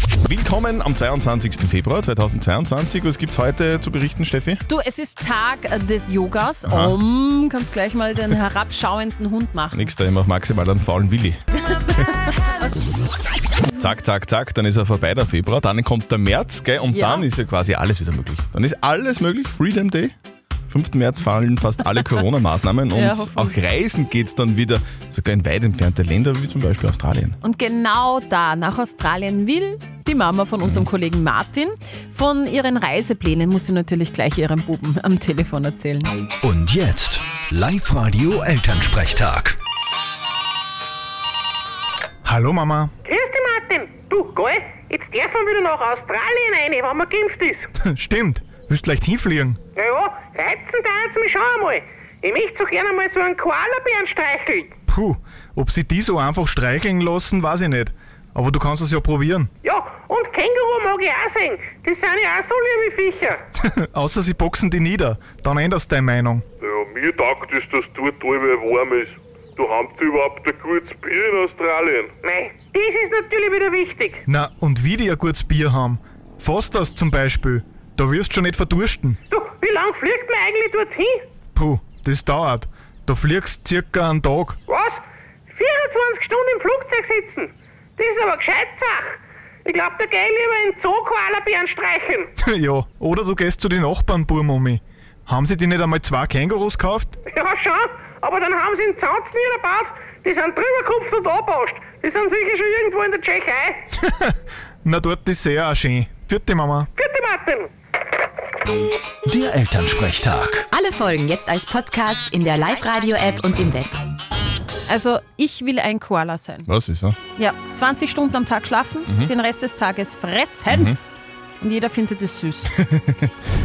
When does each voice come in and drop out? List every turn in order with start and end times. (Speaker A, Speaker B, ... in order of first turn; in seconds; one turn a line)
Speaker A: 0.2-4.6
Speaker B: 4.7-9.9
Speaker A: 6.7-7.0
Speaker A: 9.7-11.4
Speaker B: 11.8-12.6
Speaker A: 13.8-20.1
Speaker B: 16.9-17.3
Speaker A: 20.7-27.4
Speaker B: 22.9-23.6
Speaker B: 27.4-36.1
Speaker C: 36.4-39.6
Speaker D: 42.2-42.9
Speaker E: 43.0-47.7
Speaker D: 47.9-49.6
Speaker E: 49.8-54.7
Speaker D: 54.9-59.5
Speaker E: 59.6-63.4
Speaker D: 63.6-66.5
Speaker F: 66.6-72.1
Speaker E: 72.2-74.2
Speaker D: 74.3-79.2
Speaker E: 79.3-81.3
Speaker D: 81.5-84.6
Speaker E: 84.7-85.0
Speaker E: 85.5-92.3
Speaker D: 92.4-97.2
Speaker E: 97.3-103.8
Speaker D: 104.0-104.3
Speaker D: 104.8-106.9
Speaker E: 107.0-107.7
Speaker C: 109.2-110.7
Speaker G: 110.7-114.0
Speaker B: 114.9-116.7
Speaker A: 116.7-117.2
Speaker B: 117.4-120.9
Speaker B: 121.6-122.7